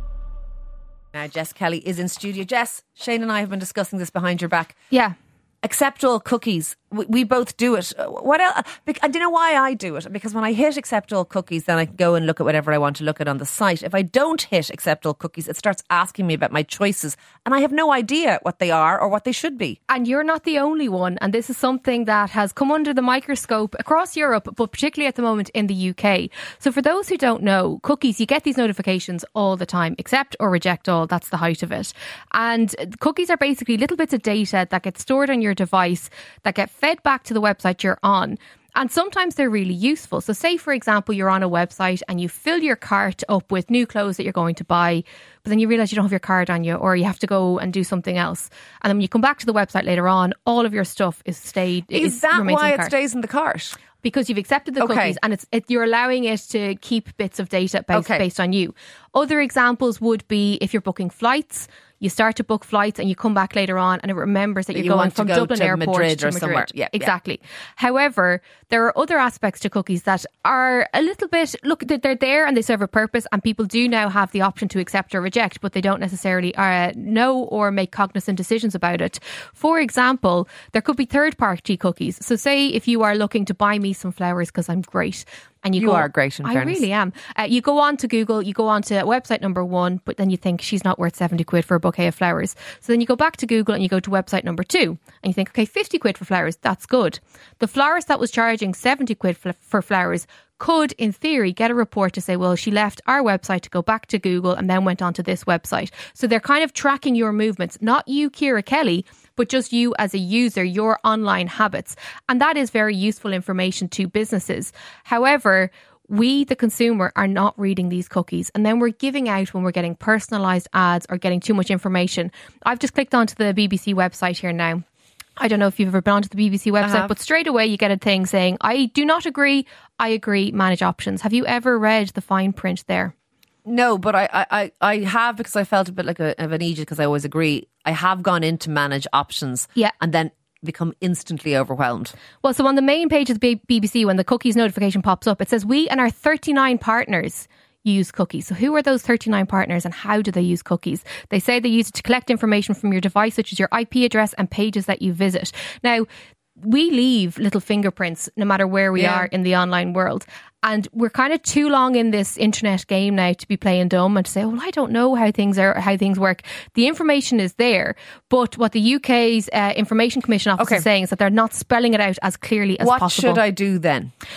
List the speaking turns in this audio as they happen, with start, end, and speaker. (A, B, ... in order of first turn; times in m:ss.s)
0:01.1-0:04.7 A
0:05.6-0:19.8 A
0:19.9-0:52.9 B
0:51.9-0:53.8 A
0:54.0-2:04.8 B
0:54.8-0:55.2 A
0:57.9-0:58.2 A
1:04.7-1:07.1 A
1:25.8-1:26.8 A
2:05.4-2:13.1 B
2:06.8-2:07.1 A
2:13.6-2:22.1 A
2:22.4-2:36.1 B
2:36.6-2:53.4 B
2:39.0-2:39.3 A
2:50.6-2:50.8 A
2:52.8-2:54.1 A